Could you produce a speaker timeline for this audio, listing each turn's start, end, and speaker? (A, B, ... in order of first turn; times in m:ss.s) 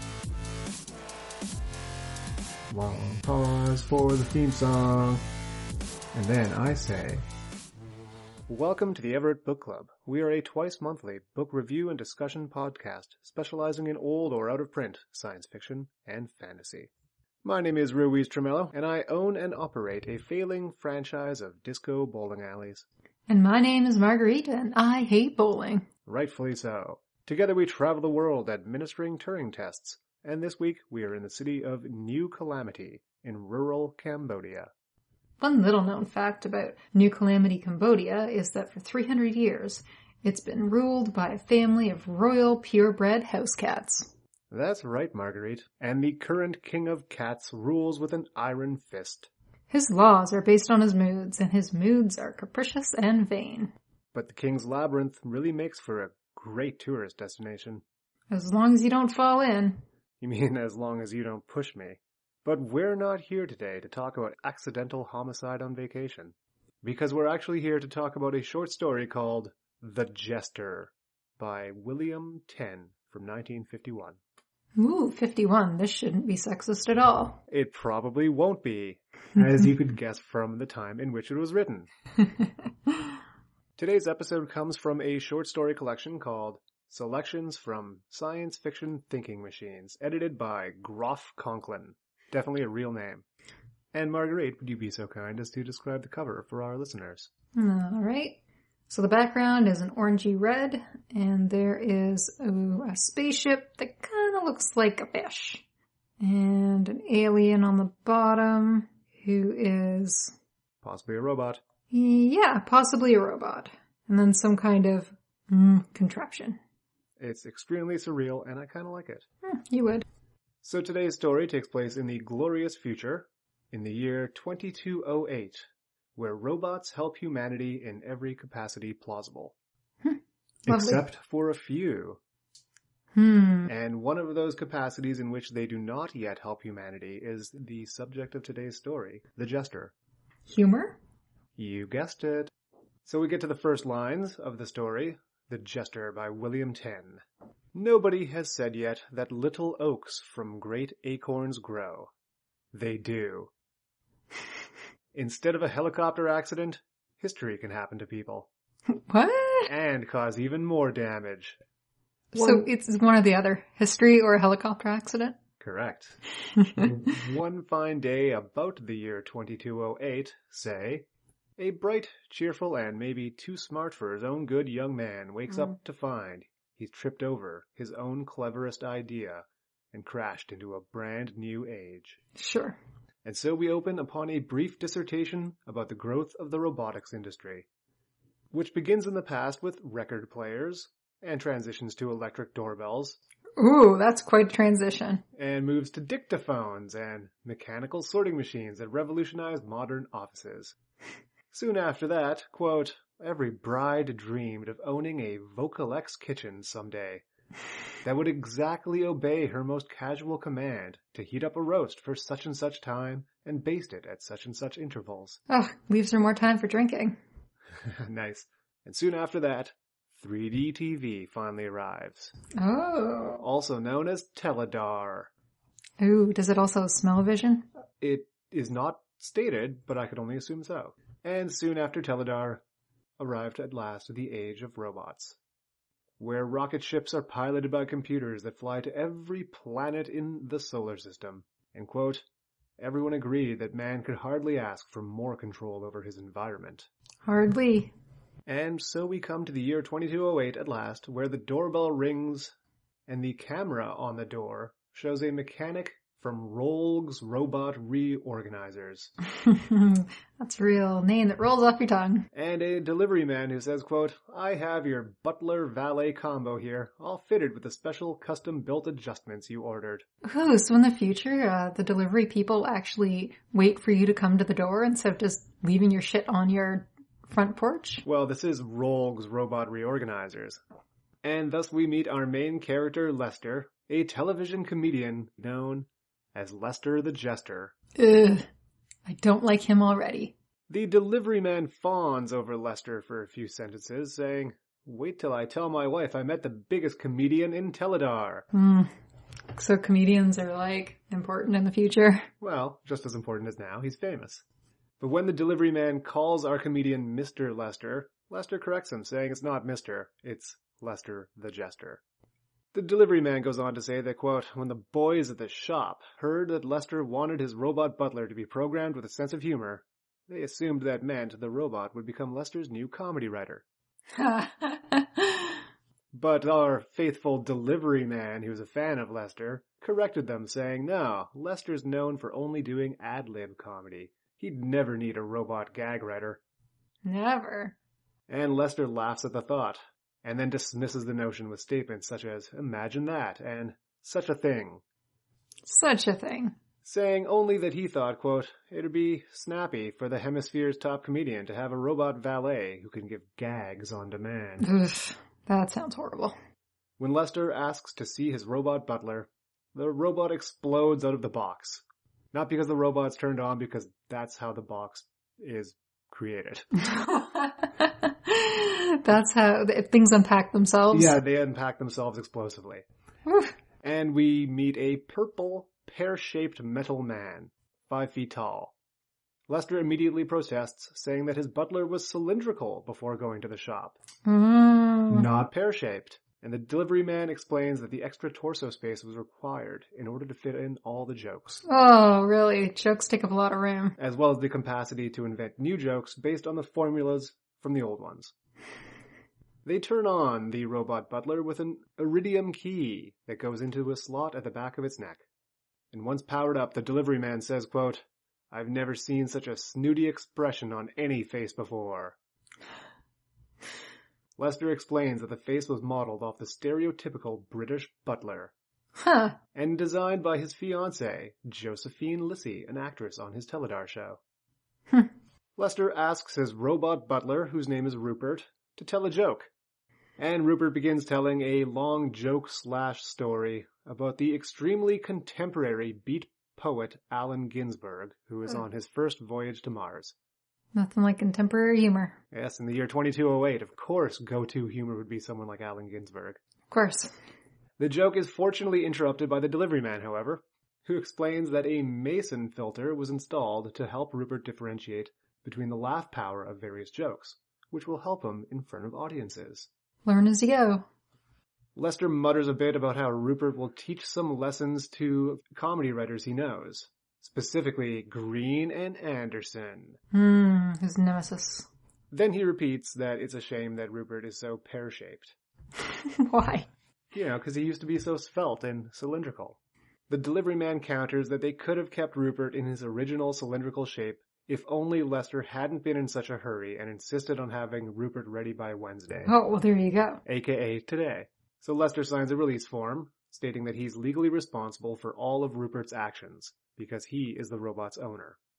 0:02.7-0:05.2 A
0:06.1-0:07.2 A
0:08.5-0:16.9 A
0:17.4-0:22.9 A
0:23.3-0:25.9 B
0:26.1-0:34.7 A
0:35.4-0:44.1 B
0:44.5-0:49.3 A
0:49.7-0:53.7 B
0:54.1-0:57.8 A
0:58.3-0:59.8 B
1:00.2-1:14.2 A
1:14.8-1:17.4 B
1:17.5-1:21.9 A
1:23.8-1:33.2 A
1:33.9-1:37.3 A
1:37.6-1:45.6 B
1:46.2-1:50.4 B
1:50.8-1:51.6 A
1:51.9-1:56.6 B
1:57.2-1:59.3 A
1:59.4-2:00.1 B
2:00.6-2:09.6 A
2:10.0-2:11.0 B
2:10.7-2:12.2 A
2:13.2-2:13.7 B
2:13.7-2:19.9 A
2:20.5-2:21.0 B
2:21.6-2:22.5 A
2:23.0-2:27.2 A
2:27.7-2:32.1 A
2:32.7-2:33.5 A
2:35.1-2:38.5 A
2:38.9-2:39.7 B
2:39.7-2:41.6 A
2:42.3-2:45.4 B
2:42.3-2:42.7 A
2:45.6-2:46.2 A
2:46.6-2:46.9 B
2:46.8-2:51.1 A
2:51.6-3:02.2 A
3:02.4-3:02.8 B
3:03.2-3:07.7 A
3:08.5-3:13.2 A
3:13.6-3:15.2 B
3:15.4-3:20.8 A
3:21.5-3:27.2 A
3:28.0-3:35.4 A
3:35.5-3:37.2 B
3:37.8-3:42.3 A
3:42.6-3:43.4 B
3:43.4-3:45.3 A
3:46.0-3:47.7 B
3:48.0-3:52.6 A
3:53.2-3:55.4 A
3:56.2-4:02.2 A
4:02.8-4:06.9 A
4:07.3-4:07.9 B
4:08.5-4:12.5 A
4:13.1-4:19.1 A
4:19.4-4:22.3 B
4:22.3-4:30.0 A
4:30.2-4:38.0 B
4:38.0-4:40.6 A
4:41.2-4:47.7 A
4:48.0-4:48.5 B
4:49.1-4:50.4 B
4:50.7-4:58.5 A
4:58.5-4:58.9 B
4:59.6-5:02.3 B
5:02.4-5:04.4 A
5:05.0-5:12.0 A
5:12.7-5:23.6 A
5:24.1-5:25.6 B
5:26.1-5:36.4 A
5:37.0-5:37.8 B
5:38.3-5:44.8 A
5:45.7-5:46.6 B
5:46.8-5:54.7 A
5:54.6-5:56.4 B
5:57.0-6:06.9 A
6:06.8-6:11.2 B
6:10.9-6:12.8 A
6:13.3-6:13.5 B
6:13.8-6:18.7 A
6:19.5-6:24.0 A
6:24.2-6:25.3 B
6:25.1-6:31.6 A
6:31.7-6:34.0 B
6:34.0-6:38.3 A
6:39.6-6:45.2 A
6:45.9-6:52.2 A
6:54.4-6:58.5 A
6:59.0-6:59.4 B
6:59.6-7:04.2 A
7:05.6-7:09.5 A
7:10.2-7:20.2 A
7:20.8-7:22.2 B
7:22.3-7:26.4 A
7:26.7-7:27.1 B
7:27.8-7:39.7 A
7:40.0-7:40.9 B
7:41.8-7:50.0 A
7:50.1-7:51.7 B
7:52.1-7:55.4 A
7:55.8-7:56.7 B
7:57.1-7:59.6 A
8:00.1-8:09.3 A
8:09.3-8:10.2 B
8:10.3-8:18.4 A